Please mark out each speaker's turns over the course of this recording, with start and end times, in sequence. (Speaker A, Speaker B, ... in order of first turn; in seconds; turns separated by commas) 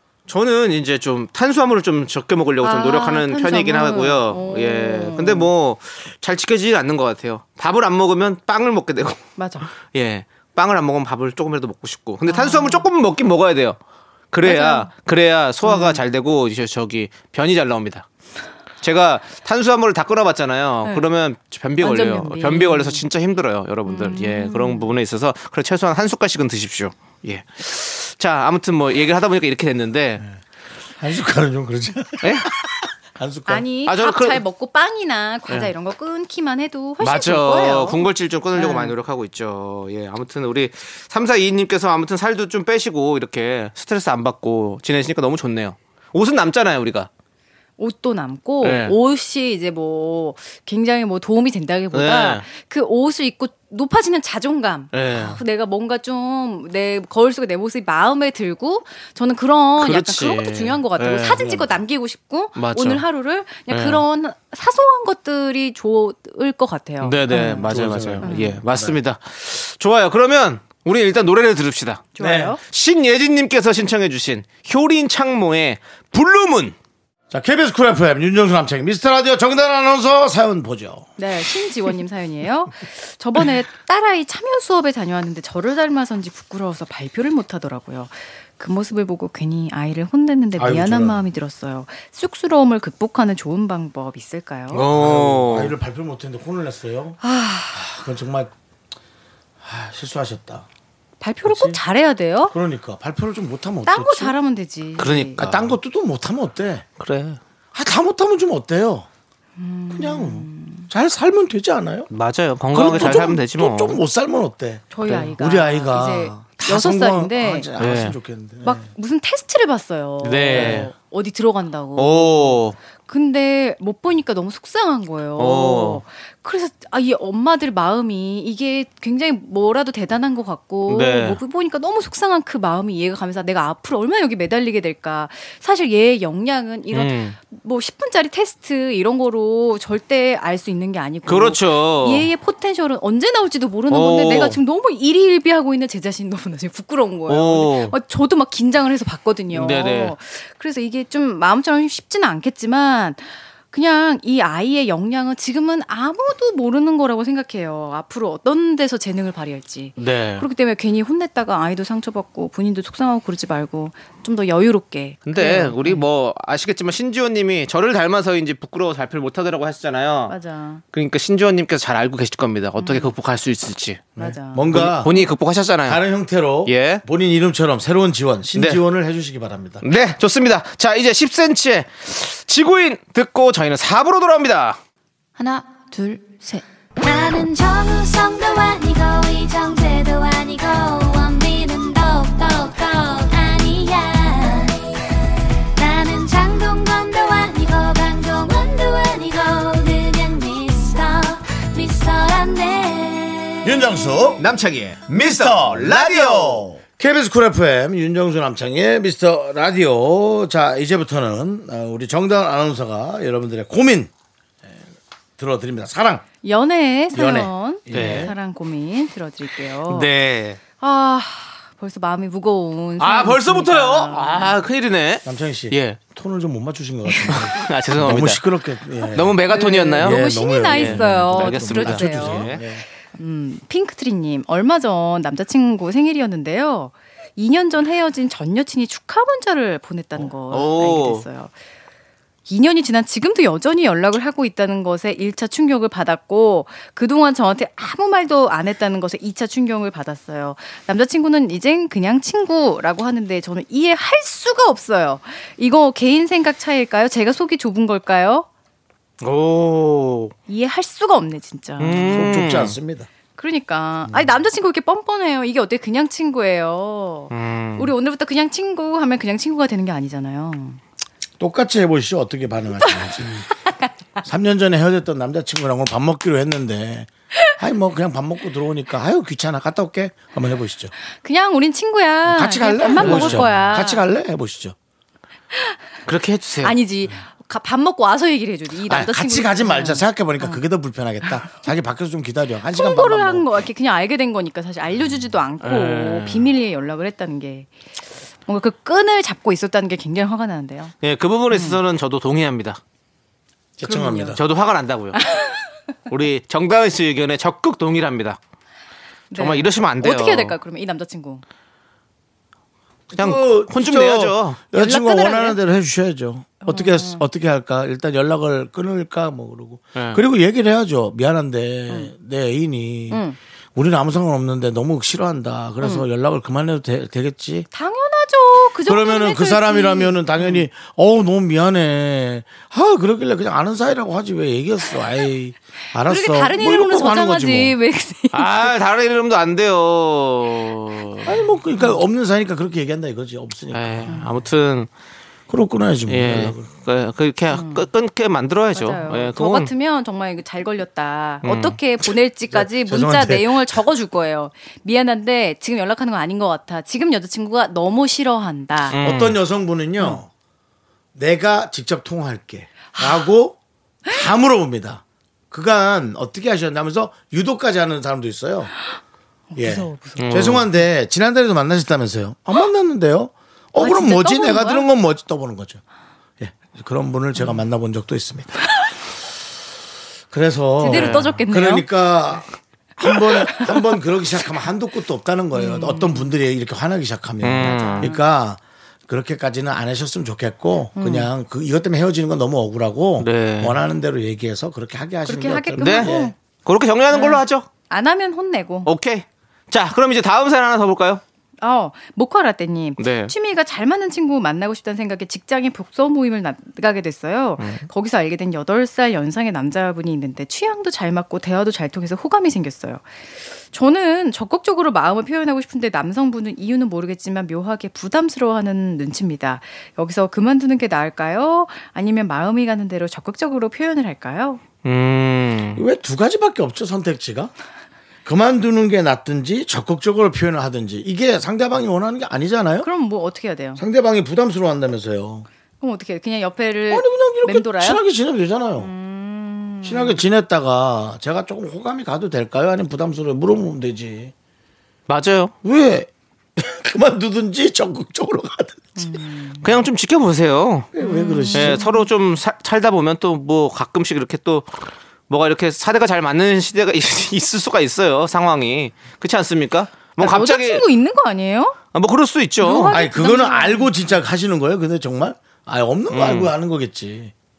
Speaker A: 0.3-13.8, Speaker B: 2.6-5.5, Speaker B: 9.4-9.7, Speaker B: 12.2-12.9, Speaker A: 14.3-18.1, Speaker B: 14.4-14.9, Speaker B: 15.6-16.0, Speaker A: 18.8-30.2, Speaker B: 20.8-21.1, Speaker B: 21.8-23.0, Speaker B: 23.9-24.9, Speaker C: 30.9-33.6, Speaker A: 32.2-32.5, Speaker B: 33.5-38.9, Speaker A: 33.8-34.4, Speaker A: 37.0-47.1, Speaker B: 47.8-67.7, Speaker A: 48.6-48.9, Speaker A: 51.9-52.4, Speaker A: 54.9-55.4, Speaker A: 59.8-61.4, Speaker C: 61.4-61.7, Speaker A: 62.5-63.0, Speaker A: 63.7-64.0, Speaker A: 67.0-72.1, Speaker C: 67.6-69.0, Speaker B: 68.2-68.6, Speaker B: 72.1-72.6, Speaker C: 72.2-72.6, Speaker A: 72.6-76.8, Speaker C: 77.3-81.1, Speaker B: 81.2-94.9, Speaker C: 90.6-91.2, Speaker A: 94.7-95.7, Speaker C: 94.8-97.2, Speaker B: 97.2-97.8, Speaker C: 97.7-98.5, Speaker C: 99.6-100.7, Speaker B: 101.2-102.5, Speaker C: 101.4-101.8, Speaker C: 102.5-104.3, Speaker B: 103.9-105.4, Speaker A: 105.0-105.8, Speaker C: 105.4-106.8, Speaker A: 107.0-107.4, Speaker C: 107.7-109.1, Speaker B: 109.6-110.9, Speaker C: 109.9-112.1, Speaker A: 112.1-114.0, Speaker C: 112.7-118.9, Speaker B: 112.9-113.3, Speaker B: 114.9-117.7, Speaker A: 117.8-118.2, Speaker B: 118.6-166.0, Speaker A: 120.2-120.9, Speaker C: 120.5-120.8, Speaker A: 122.0-122.8, Speaker A: 125.4-126.0, Speaker A: 130.9-131.4, Speaker A: 136.9-137.3, Speaker A: 141.2-142.3, Speaker A: 143.9-144.6, Speaker A: 147.3-147.9, Speaker A: 149.5-150.1, Speaker A: 160.0-160.4, Speaker A: 165.2-170.3, Speaker B: 170.3-170.8, Speaker A: 170.9-174.1, Speaker B: 172.8-173.1, Speaker C: 174.2-175.1, Speaker B: 174.2-175.3, Speaker A: 174.7-176.0, Speaker C: 175.8-179.8, Speaker A: 176.6-177.0, Speaker A: 178.5-178.8, Speaker A: 179.8-184.8, Speaker D: 185.4-195.0, Speaker D: 195.8-203.9, Speaker C: 203.6-204.4, Speaker A: 204.4-206.7, Speaker C: 205.1-214.1, Speaker C: 215.4-216.2, Speaker B: 216.4-220.1, Speaker C: 217.1-218.3, Speaker A: 217.9-218.3, Speaker A: 219.9-220.6, Speaker B: 220.8-224.6, Speaker A: 223.0-226.0, Speaker C: 225.2-229.4, Speaker A: 227.2-228.4, Speaker A: 229.1-232.6, Speaker B: 229.4-241.5, Speaker C: 230.0-232.8, Speaker A: 240.5-241.2, Speaker B: 242.5-258.4, Speaker A: 259.2-260.3, Speaker B: 260.5-262.3, Speaker A: 261.8-262.8, Speaker C: 262.1-263.1, Speaker B: 263.3-270.8, Speaker A: 267.3-267.9, Speaker C: 271.4-273.5, Speaker B: 272.8-273.9, Speaker C: 274.2-280.9, Speaker B: 281.2-284.0, Speaker C: 282.2-284.7, Speaker A: 283.0-283.4, Speaker A: 286.1-286.8, Speaker B: 286.6-290.6, Speaker C: 288.8-293.6, Speaker B: 292.7-297.7, Speaker A: 295.6-296.5, Speaker B: 298.4-300.9, Speaker A: 301.0-302.8, Speaker B: 301.5-301.8, Speaker C: 303.8-304.4, Speaker B: 303.8-304.4, Speaker A: 304.3-305.2, Speaker B: 305.1-305.6, Speaker A: 306.1-308.4, Speaker B: 309.3-311.4, Speaker A: 309.4-310.6, Speaker C: 313.1-323.2, Speaker A: 313.1-314.6, Speaker B: 314.7-315.6, Speaker B: 316.6-317.2, Speaker A: 319.9-320.2, Speaker B: 323.1-323.4, Speaker C: 323.7-327.7, Speaker B: 327.7-330.6, Speaker C: 328.8-337.8, Speaker B: 336.1-338.7, Speaker A: 338.3-341.3, Speaker C: 341.2-344.1, Speaker A: 343.7-344.9, Speaker C: 345.5-346.7, Speaker A: 346.1-349.7, Speaker B: 347.5-347.9, Speaker B: 348.7-359.0, Speaker A: 351.4-351.8, Speaker C: 352.5-353.8, Speaker A: 358.9-359.4, Speaker C: 359.0-360.3, Speaker C: 361.1-363.6, Speaker C: 364.1-368.7, Speaker B: 369.5-370.4, Speaker C: 369.6-375.8, Speaker A: 370.2-370.7, Speaker B: 373.8-374.9, Speaker C: 376.4-378.7, Speaker C: 380.3-382.4, Speaker B: 380.8-382.4, Speaker A: 380.8-381.4, Speaker C: 383.0-396.3, Speaker B: 383.1-383.9, Speaker B: 385.5-386.3, Speaker A: 387.4-388.1, Speaker B: 387.7-388.2, Speaker B: 390.9-391.3, Speaker A: 393.2-393.8, Speaker B: 395.2-396.3, Speaker A: 395.8-396.1, Speaker A: 396.6-397.7, Speaker B: 397.1-398.9, Speaker A: 398.8-401.2, Speaker B: 401.6-424.6, Speaker A: 403.0-403.3, Speaker A: 407.6-407.9, Speaker A: 424.8-425.8, Speaker C: 425.8-427.5, Speaker C: 428.2-432.9, Speaker B: 432.8-433.8, Speaker C: 433.8-435.5, Speaker B: 435.8-438.0, Speaker C: 436.9-438.9, Speaker B: 438.8-440.2, Speaker C: 439.8-444.3, Speaker A: 445.1-445.5, Speaker C: 445.6-449.2, Speaker B: 449.0-449.7, Speaker A: 449.6-450.9, Speaker C: 450.9-451.9, Speaker B: 451.0-452.1, Speaker A: 451.5-454.7, Speaker A: 455.3-460.8, Speaker B: 460.2-461.8, Speaker A: 461.9-462.9, Speaker B: 462.6-464.0, Speaker C: 462.9-467.3, Speaker A: 466.1-466.5